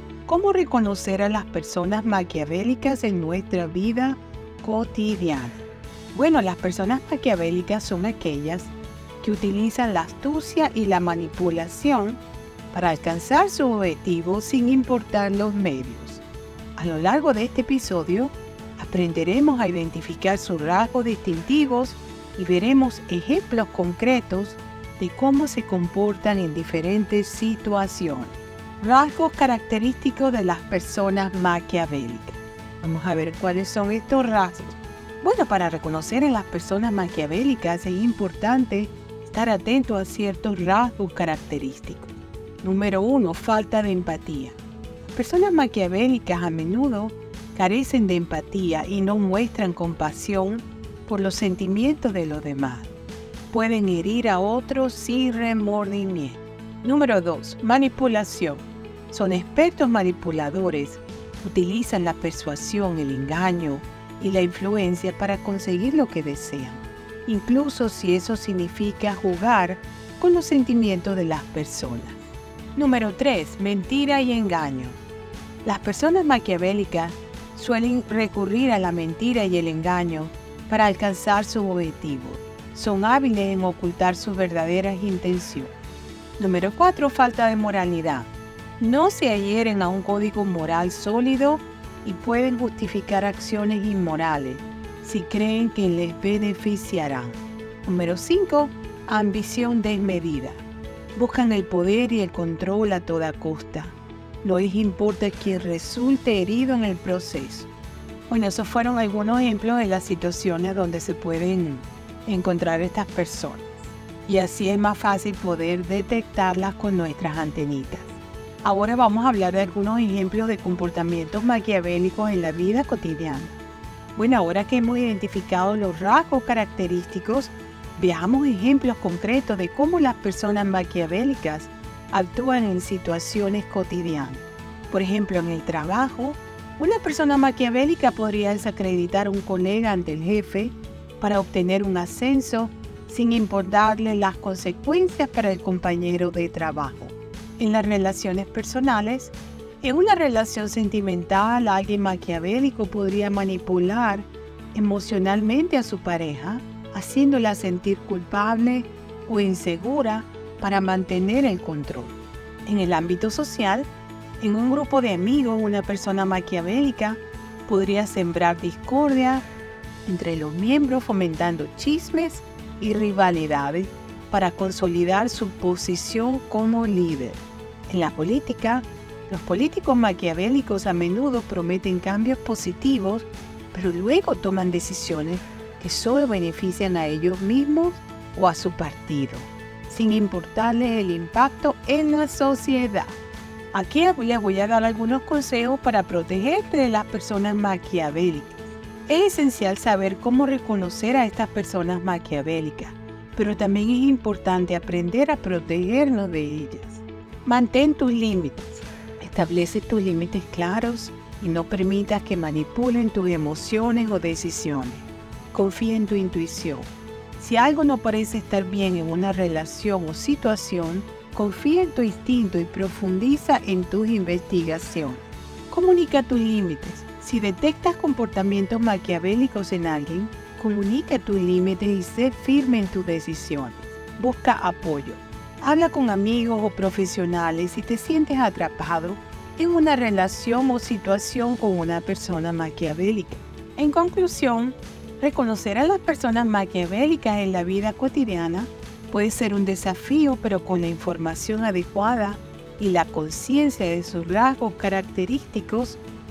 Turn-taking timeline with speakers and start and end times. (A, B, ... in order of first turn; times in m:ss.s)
0:00.3-0:12.2 A
0:12.7-0:16.2 A
0:16.8-0:52.9 A
0:53.5-1:12.2 A
1:12.8-1:15.0 A
1:15.6-1:25.7 A
1:26.4-1:28.3 A
1:28.8-1:40.6 A
1:41.1-1:47.7 A
1:48.3-1:53.7 A
1:54.2-2:03.6 A
2:04.1-2:43.9 A
2:44.4-2:49.4 A
2:50.0-3:13.2 A
3:13.7-4:16.0 A